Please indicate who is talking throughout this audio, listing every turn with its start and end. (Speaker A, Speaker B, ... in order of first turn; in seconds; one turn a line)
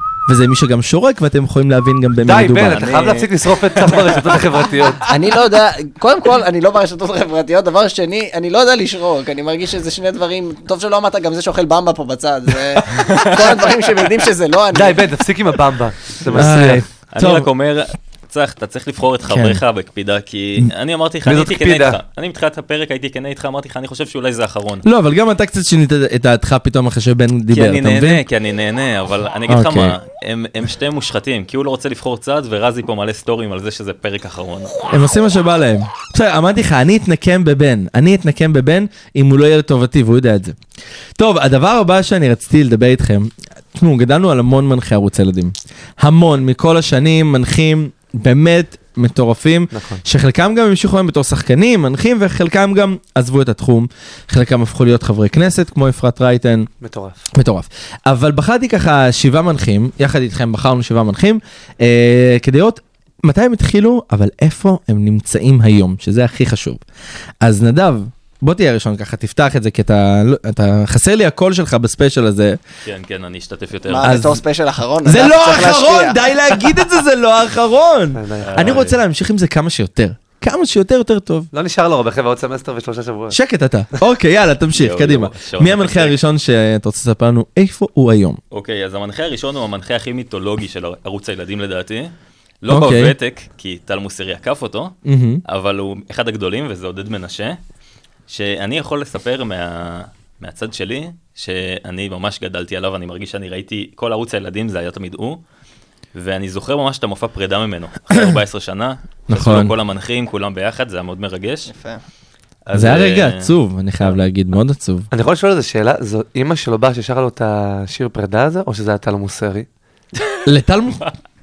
Speaker A: 0.3-3.2
Speaker B: 2.2-5.1
Speaker C: 2.7-3.1
Speaker D: 5.0-15.1
Speaker B: 14.7-16.9
Speaker A: 16.3-17.5
Speaker C: 17.1-24.8
Speaker A: 19.3-19.6
Speaker B: 21.2-22.0
Speaker A: 24.8-28.2
Speaker C: 27.5-34.8
Speaker A: 29.5-30.0
Speaker A: 34.9-40.6
Speaker A: 41.1-56.7
Speaker B: 49.7-50.0
Speaker B: 56.8-57.3
Speaker A: 57.3-66.8
Speaker A: 67.4-72.6
Speaker C: 72.8-74.2
Speaker D: 73.9-76.2
Speaker A: 74.0-74.4
Speaker A: 75.0-81.5
Speaker B: 78.1-78.9
Speaker C: 78.4-79.0
Speaker B: 81.5-83.4
Speaker A: 83.3-88.4
Speaker C: 84.8-86.2
Speaker C: 88.5-94.9
Speaker A: 92.7-93.1
Speaker A: 95.0-95.4
Speaker C: 95.5-97.6
Speaker C: 98.3-105.4
Speaker C: 106.1-111.7
Speaker A: 109.3-109.7
Speaker D: 111.7-112.0
Speaker C: 112.7-113.5
Speaker A: 112.7-115.1
Speaker B: 115.1-119.7
Speaker A: 120.4-121.0